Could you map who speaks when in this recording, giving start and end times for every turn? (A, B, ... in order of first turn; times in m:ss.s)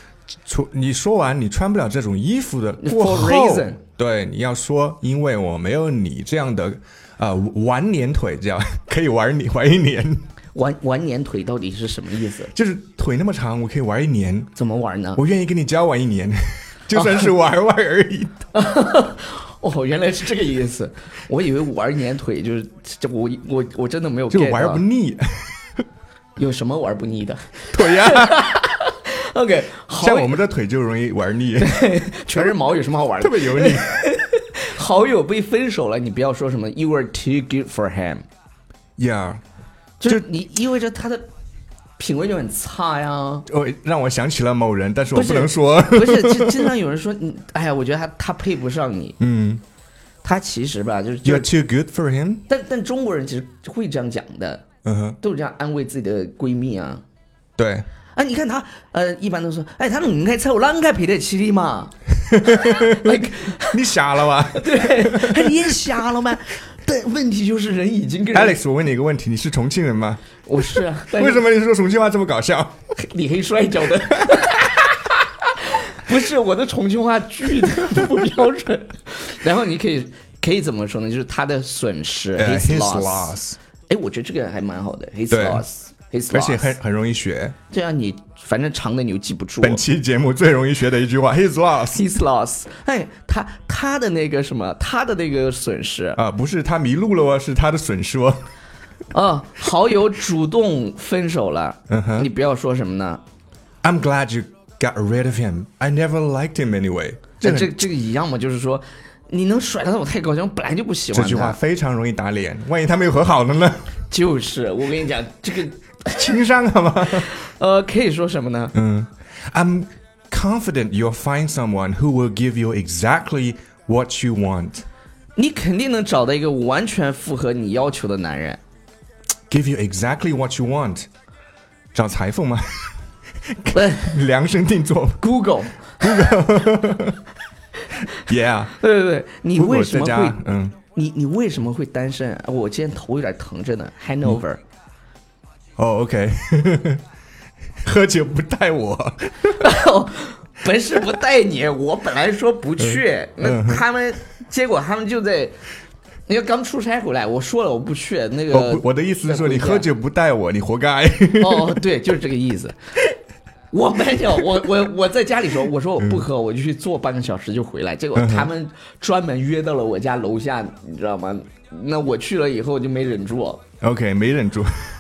0:00.4-0:10.2 A
0:02.8-0:03.8 B
0:10.6-0:12.5 B
0:12.5-0:14.5 A
0:14.6-0:15.2 B
0:15.2-0:18.4 A
0:17.0-0:17.2 B
0:18.5-0:24.8 B
0:24.3-0:25.7 A
0:26.4-0:30.4 B
0:27.7-0:28.5 A
0:30.0-0:32.5 A
0:31.6-0:38.2 B
0:33.2-0:34.0 A
0:39.0-0:39.4 A
0:40.0-0:41.2 B
0:42.0-0:43.5 B
0:43.5-0:46.7 A
0:45.1-0:49.2 B
0:49.2-0:49.6 A
0:50.2-0:51.5 B
0:51.2-0:52.4 A
0:52.5-0:54.6 B
0:54.8-0:55.2 A
0:55.2-0:57.0 B
0:57.6-0:57.9 A
0:58.2-1:03.8 B
1:02.3-1:05.9 A
1:04.5-1:08.6 B
1:08.3-1:12.8 A
1:10.5-1:11.4 B
1:13.0-1:23.4 B
1:22.4-1:23.6 A
1:23.9-1:26.8 B
1:25.3-1:25.6 A
1:26.3-1:27.6 A
1:27.7-1:29.8 B
1:29.6-1:32.1 A
1:31.9-1:36.2 B
1:36.2-1:38.4 A
1:39.1-1:43.2 B
1:41.9-1:42.3 A
1:43.8-1:47.9 A
1:47.4-1:51.6 B
1:51.1-1:54.0 A
1:54.1-1:56.4 B
1:56.1-1:57.4 A
1:57.1-1:58.7 B
1:58.7-2:04.8 A
2:05.4-2:08.6 B
2:09.5-2:11.1 A
2:11.9-2:15.2 A
2:13.7-2:14.1 B
2:15.2-2:16.4 B
2:16.0-2:17.2 A
2:18.2-2:18.8 A
2:18.8-2:24.6 B
2:19.6-2:20.8 A
2:25.8-2:27.0 A
2:27.8-2:29.6 A
2:29.6-2:35.6 B
2:32.8-2:33.8 A
2:36.3-2:39.9 B
2:38.5-2:41.8 A
2:41.4-2:42.8 B
2:43.7-2:53.6 B
2:46.0-2:46.2 A
2:48.2-2:48.5 A
2:53.8-2:54.9 A